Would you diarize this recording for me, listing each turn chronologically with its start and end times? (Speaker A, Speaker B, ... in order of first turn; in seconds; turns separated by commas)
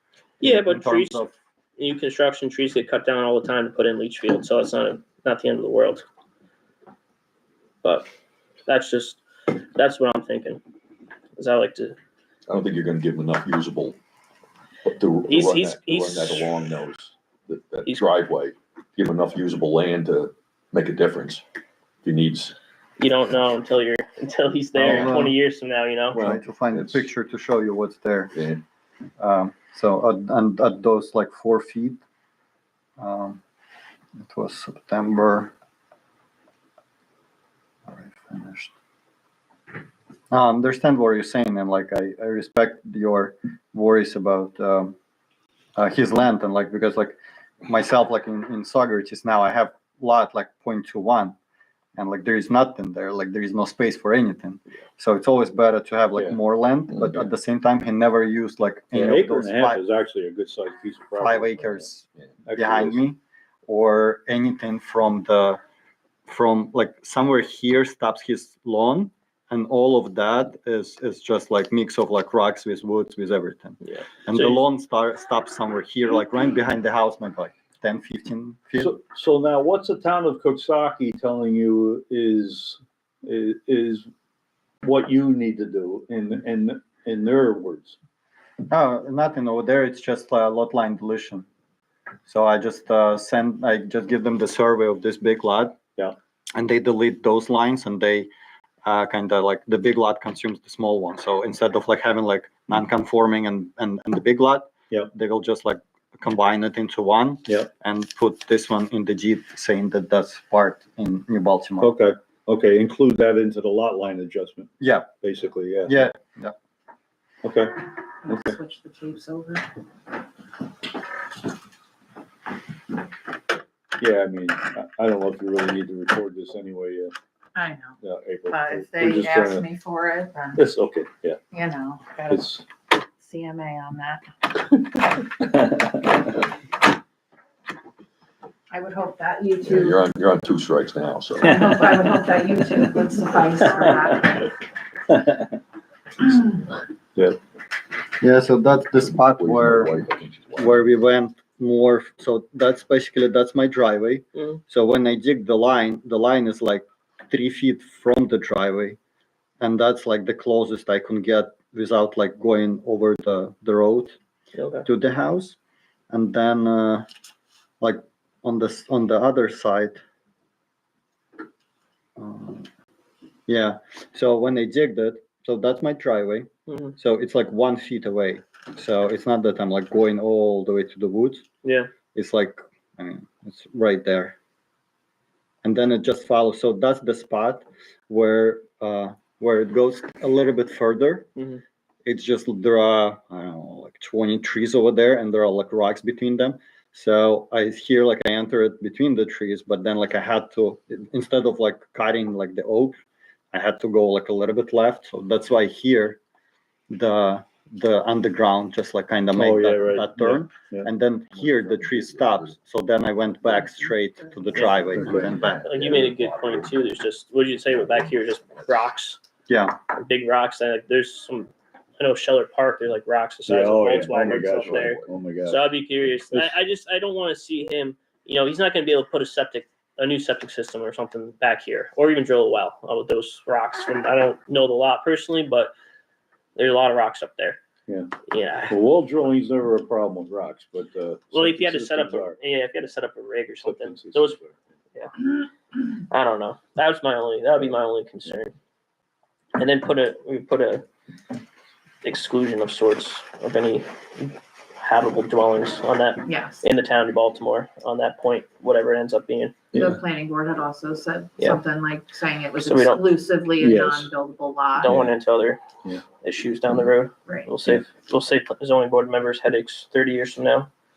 Speaker A: 0.4-1.2, Speaker B: 0.4-1.3, Speaker A: 1.8-6.0, Speaker A: 7.8-8.1, Speaker A: 8.7-10.6, Speaker A: 11.4-12.0, Speaker C: 12.5-14.0, Speaker C: 14.8-21.4, Speaker A: 15.3-16.7, Speaker C: 22.0-22.6, Speaker A: 23.0-26.2, Speaker B: 24.8-25.4, Speaker C: 24.8-25.2, Speaker C: 26.1-27.1, Speaker B: 26.1-28.4, Speaker C: 28.3-28.6, Speaker B: 29.2-32.0, Speaker B: 33.0-33.4, Speaker B: 34.2-35.5, Speaker B: 37.9-38.7, Speaker B: 40.3-45.0, Speaker B: 45.8-51.3, Speaker B: 52.0-59.8, Speaker D: 58.9-61.9, Speaker B: 61.2-65.6, Speaker D: 62.5-63.0, Speaker B: 66.3-79.0, Speaker A: 73.9-74.6, Speaker D: 78.8-84.1, Speaker D: 84.8-88.0, Speaker B: 88.7-91.5, Speaker B: 92.3-95.8, Speaker B: 96.5-98.3, Speaker B: 98.8-111.9, Speaker D: 111.8-116.1, Speaker B: 114.8-115.1, Speaker B: 115.9-116.6, Speaker D: 117.4-118.6, Speaker E: 118.2-119.7, Speaker D: 124.0-127.1, Speaker E: 127.5-128.0, Speaker D: 128.0-129.7, Speaker E: 128.5-130.6, Speaker D: 130.6-131.4, Speaker E: 131.5-132.4, Speaker D: 132.3-132.6, Speaker E: 133.0-134.9, Speaker D: 135.4-136.3, Speaker E: 138.7-140.0, Speaker C: 139.6-141.9, Speaker E: 141.4-144.5, Speaker D: 141.5-142.3, Speaker D: 143.6-144.4, Speaker D: 145.1-145.6, Speaker B: 148.2-149.9, Speaker C: 149.0-150.9, Speaker B: 150.6-159.0, Speaker A: 154.3-154.6, Speaker B: 159.6-164.2, Speaker A: 164.6-164.9, Speaker B: 164.8-165.6, Speaker B: 166.1-167.1, Speaker B: 167.8-170.0, Speaker B: 172.2-172.7, Speaker B: 173.5-181.4, Speaker A: 176.7-176.9, Speaker A: 181.6-181.9, Speaker B: 182.2-184.3, Speaker B: 185.6-191.3, Speaker B: 192.1-203.0, Speaker B: 203.5-206.2, Speaker B: 206.9-215.7, Speaker D: 209.3-210.9, Speaker C: 211.3-212.6, Speaker C: 213.4-214.0, Speaker A: 214.5-219.2, Speaker C: 214.6-216.9, Speaker D: 214.9-215.3, Speaker C: 217.7-218.8, Speaker B: 219.5-219.8, Speaker A: 219.9-235.7, Speaker D: 223.5-225.6, Speaker C: 224.2-225.2, Speaker A: 236.6-237.6, Speaker D: 237.9-238.1, Speaker A: 238.3-238.8, Speaker D: 238.7-242.4, Speaker A: 241.3-244.4, Speaker D: 243.6-244.5, Speaker A: 244.9-248.5, Speaker A: 249.6-250.8, Speaker A: 252.0-259.6, Speaker E: 256.2-256.6, Speaker D: 259.7-260.0, Speaker E: 259.7-265.0, Speaker A: 262.6-263.0, Speaker D: 263.6-264.1, Speaker A: 264.8-265.6, Speaker D: 264.8-265.1, Speaker A: 266.2-270.7